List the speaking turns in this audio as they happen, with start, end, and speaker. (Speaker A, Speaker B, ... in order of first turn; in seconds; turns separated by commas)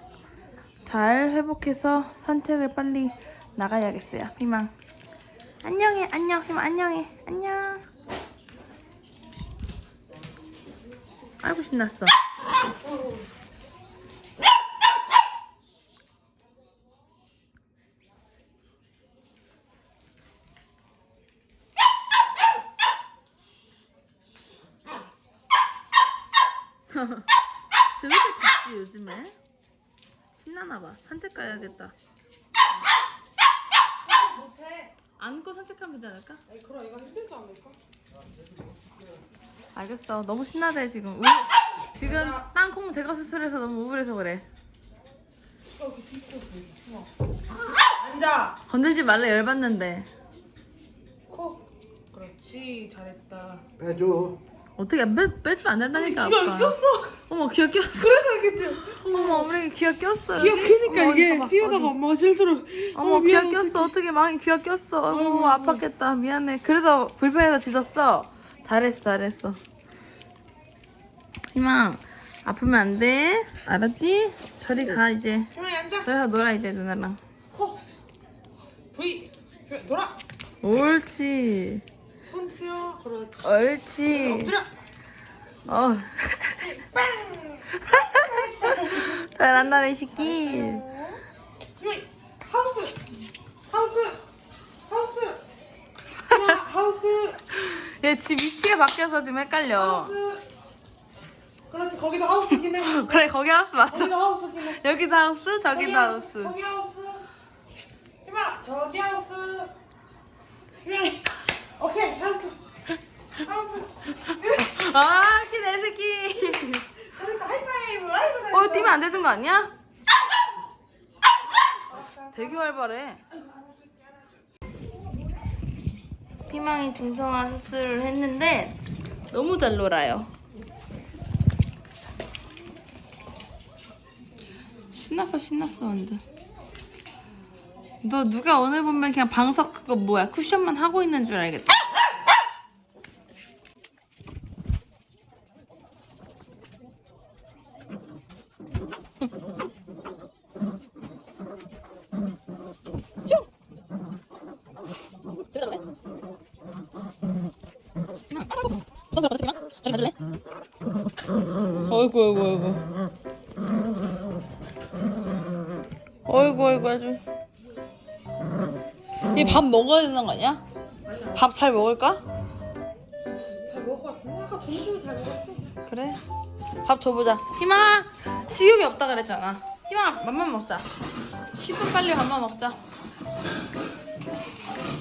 Speaker A: 0.8-4.7, Speaker A: 5.6-7.8, Speaker A: 11.4-12.1, Speaker A: 26.9-27.3, Speaker A: 28.0-29.4, Speaker A: 30.4-31.9, Speaker B: 34.0-34.9, Speaker A: 35.2-36.4, Speaker B: 36.5-37.8, Speaker A: 39.7-44.5, Speaker B: 42.0-42.5, Speaker B: 45.7-47.1, Speaker B: 47.8-48.6, Speaker A: 48.7-50.1, Speaker B: 51.3-53.6, Speaker A: 54.8-58.2, Speaker B: 55.9-57.2, Speaker B: 58.0-59.5, Speaker A: 58.8-61.9, Speaker B: 60.3-63.9, Speaker A: 62.9-69.6, Speaker B: 65.1-65.8, Speaker A: 71.5-75.5, Speaker B: 75.5-76.1, Speaker A: 76.0-77.2, Speaker B: 77.5-77.8, Speaker B: 78.9-80.2, Speaker A: 80.6-81.8, Speaker B: 82.2-84.7, Speaker A: 83.4-84.6, Speaker A: 85.7-86.7, Speaker B: 86.6-89.3, Speaker A: 87.7-90.8, Speaker B: 90.1-91.2, Speaker B: 91.8-93.0, Speaker B: 93.7-94.2, Speaker B: 94.9-95.5, Speaker A: 96.3-96.6, Speaker B: 96.3-97.4, Speaker A: 97.5-100.2, Speaker B: 99.7-100.4, Speaker B: 101.7-103.3, Speaker A: 102.6-106.5, Speaker B: 103.8-104.8, Speaker B: 105.7-107.3, Speaker B: 108.2-109.7, Speaker B: 110.8-112.6, Speaker B: 113.3-114.7, Speaker A: 114.4-116.9, Speaker B: 116.9-119.0, Speaker A: 118.5-119.7, Speaker B: 121.9-122.6, Speaker A: 122.3-123.2, Speaker B: 123.3-124.2, Speaker A: 126.5-130.3, Speaker A: 134.9-136.2, Speaker A: 138.0-141.8, Speaker A: 155.5-155.8, Speaker A: 158.3-160.1, Speaker A: 161.8-162.8, Speaker A: 166.3-167.2, Speaker A: 169.3-170.6, Speaker B: 171.1-171.4, Speaker A: 171.3-172.2, Speaker B: 173.5-175.7, Speaker A: 175.9-176.2, Speaker A: 176.8-180.9, Speaker A: 181.5-182.8